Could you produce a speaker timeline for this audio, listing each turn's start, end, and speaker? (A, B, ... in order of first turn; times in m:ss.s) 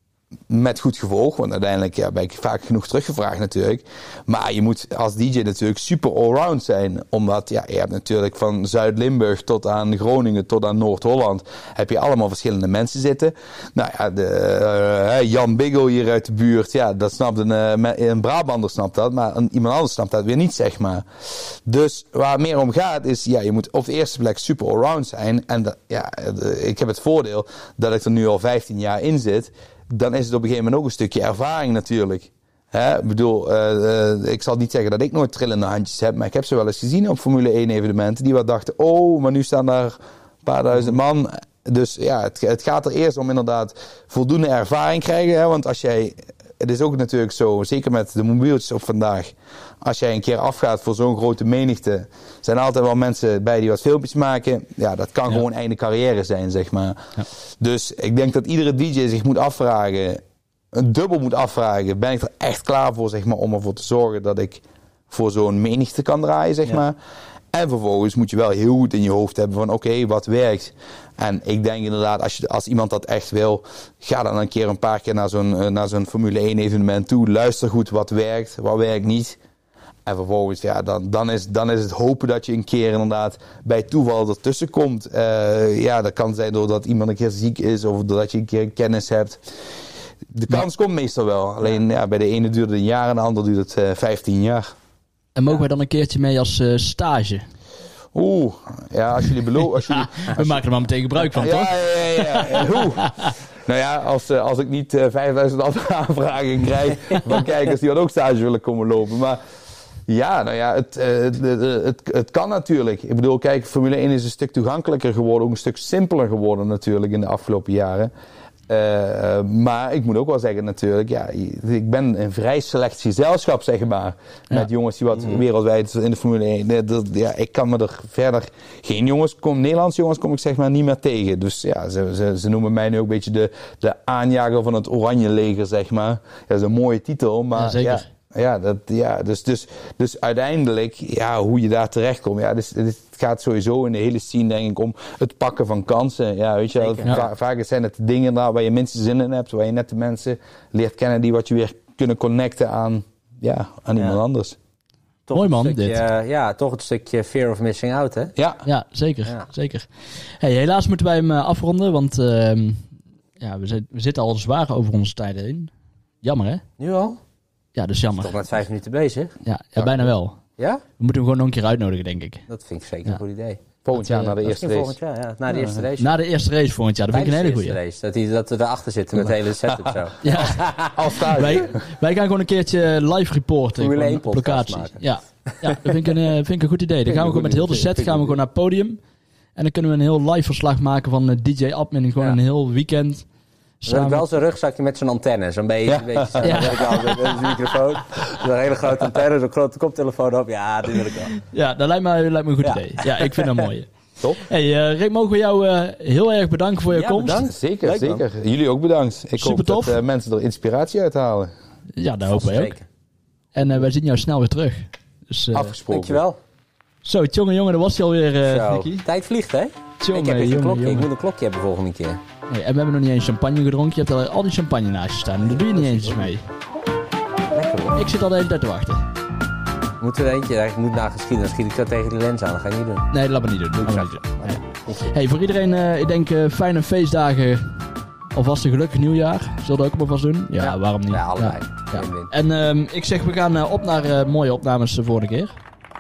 0:00.5-0:57.0 A
0:57.6-1:07.0 A
1:07.5-1:19.4 A
1:20.1-1:29.4 A
1:30.3-1:34.7 A
1:35.4-1:37.5 B
1:38.1-1:40.6 A
1:39.9-1:43.3 B
1:41.3-1:49.4 A
1:50.1-1:58.1 A
1:58.7-2:34.6 A
2:17.6-2:18.0 B
2:26.8-2:27.3 C
2:35.3-2:38.4 C
2:35.3-2:36.0 B
2:38.4-2:38.6 A
2:38.6-2:42.9 B
2:43.4-2:46.6 B
2:46.8-2:47.2 C
2:47.8-2:48.4 B
2:48.1-2:49.4 C
2:49.4-2:50.4 B
2:49.8-2:50.1 A
2:51.0-2:52.4 B
2:52.5-2:53.6 C
2:53.8-2:55.0 A
2:54.0-2:54.4 B
2:54.4-2:56.1 C
2:55.6-2:55.8 A
2:56.0-2:57.8 B
2:57.1-3:01.4 C
2:59.7-3:01.8 A
3:00.2-3:09.0 B
3:03.8-3:06.0 C
3:07.1-3:08.4 C
3:09.6-3:13.3 B
3:13.8-3:14.3 B
3:13.9-3:21.4 C
3:15.9-3:16.7 A
3:16.4-3:17.1 B
3:21.4-3:27.5 B
3:22.6-3:23.6 C
3:26.9-3:28.2 C
3:27.5-3:31.5 A
3:29.4-3:30.0 B
3:32.0-3:32.8 B
3:32.3-3:32.9 C
3:33.5-3:35.7 B
3:35.5-3:36.2 A
3:35.9-3:36.4 C
3:37.0-3:39.0 B
3:38.4-3:42.2 C
3:40.0-3:41.1 B
3:42.5-3:46.4 B
3:45.5-3:46.3 C
3:47.5-3:48.0 C
3:48.0-3:49.1 B
3:50.0-3:53.1 C
3:53.1-4:05.6 B
3:53.8-3:55.1 C
4:00.6-4:02.3 C